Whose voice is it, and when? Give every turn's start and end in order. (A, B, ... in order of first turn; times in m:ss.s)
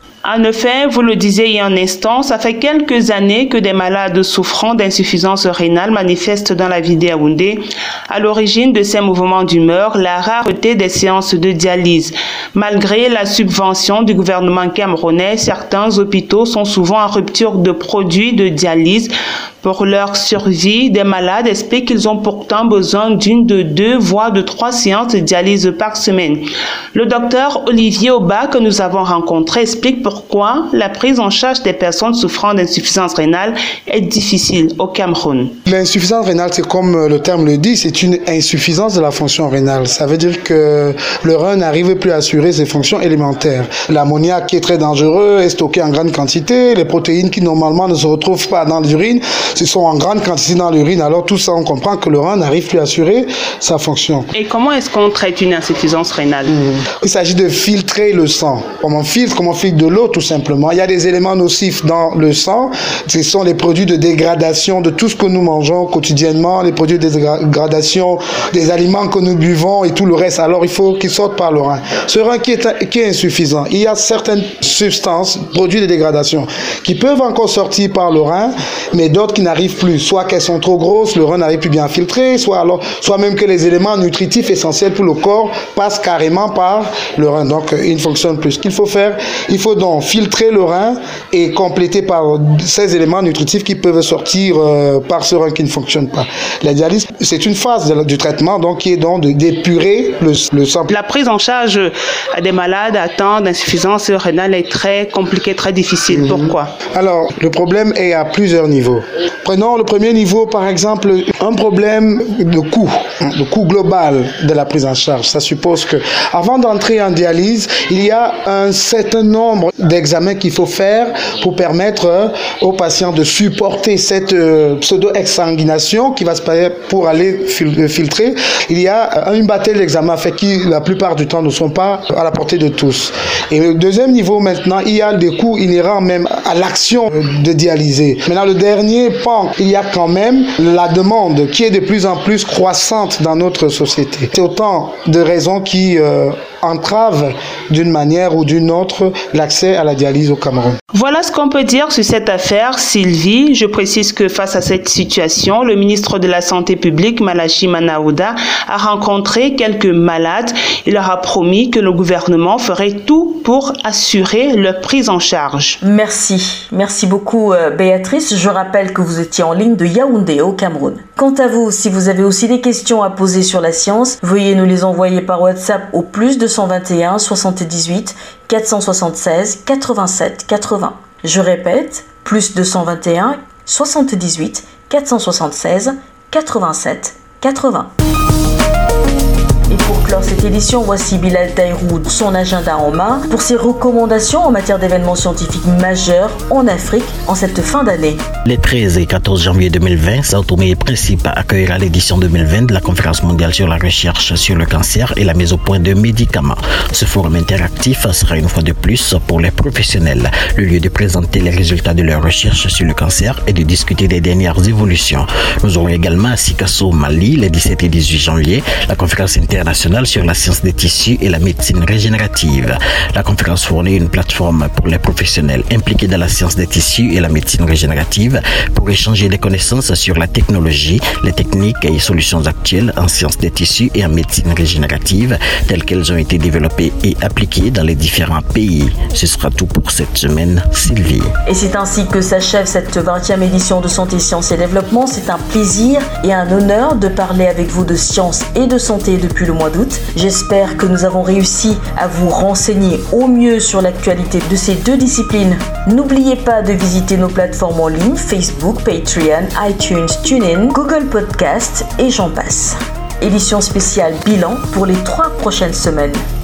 0:00.2-0:35.5 A
0:35.7-0:54.3 B
0:54.3-0:56.5 A
0:56.5-1:40.9 B
1:40.9-1:46.7 A
1:46.1-2:30.8 B
2:30.9-2:45.8 A
2:45.8-3:07.9 C
3:09.7-3:18.2 C
3:18.5-4:01.3 D
4:01.5-4:26.2 C